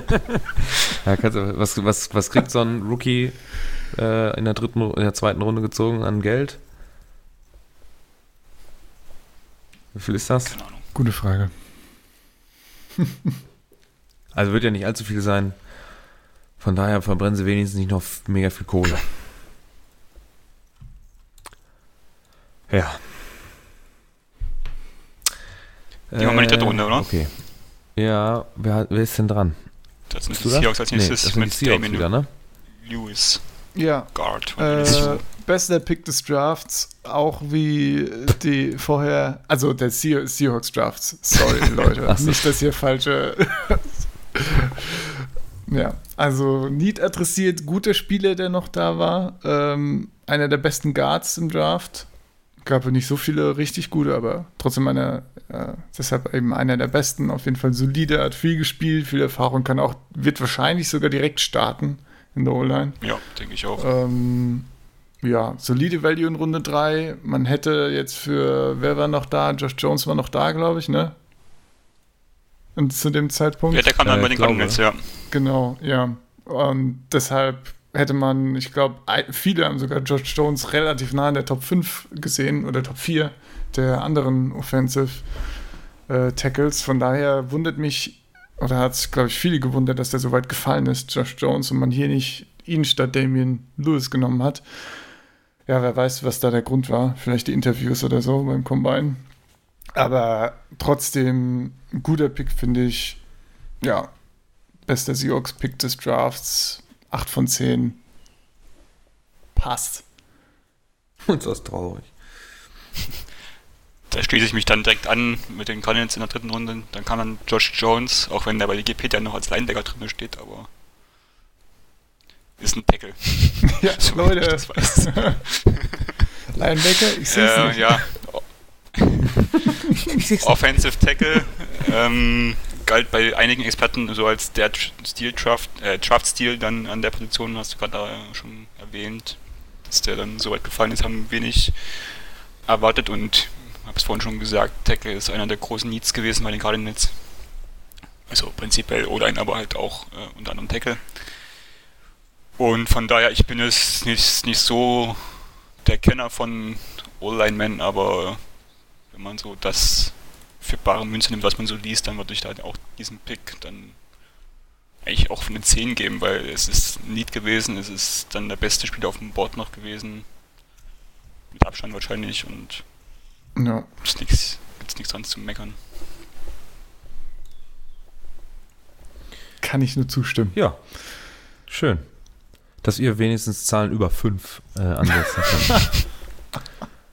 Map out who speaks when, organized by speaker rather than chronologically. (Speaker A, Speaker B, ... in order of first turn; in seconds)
Speaker A: 1.0-6.6, 9.9-10.6, 14.3-15.7, 16.6-19.1, 22.7-23.1, 26.1-32.3, 42.0-42.4, 74.0-74.8, 111.3-112.1, 130.2-130.5, 180.5-186.1
Speaker B: 10.5-10.8, 26.2-27.1, 30.1-35.2, 63.0-63.8, 73.7-75.1, 114.1-120.7, 122.6-126.0, 127.3-129.6, 130.1-147.7, 148.3-151.4, 152.6-164.5, 165.0-170.3, 171.5-172.9, 174.0-175.8
Speaker C: 10.9-11.5, 33.7-45.0, 45.7-64.7, 65.2-71.1, 72.8-73.9, 75.3-85.5, 86.1-95.0, 95.7-99.2, 99.9-103.2, 103.8-104.2, 104.8-108.0, 109.5-110.0, 123.7-125.4, 126.5-128.2, 173.6-173.9, 179.6-180.6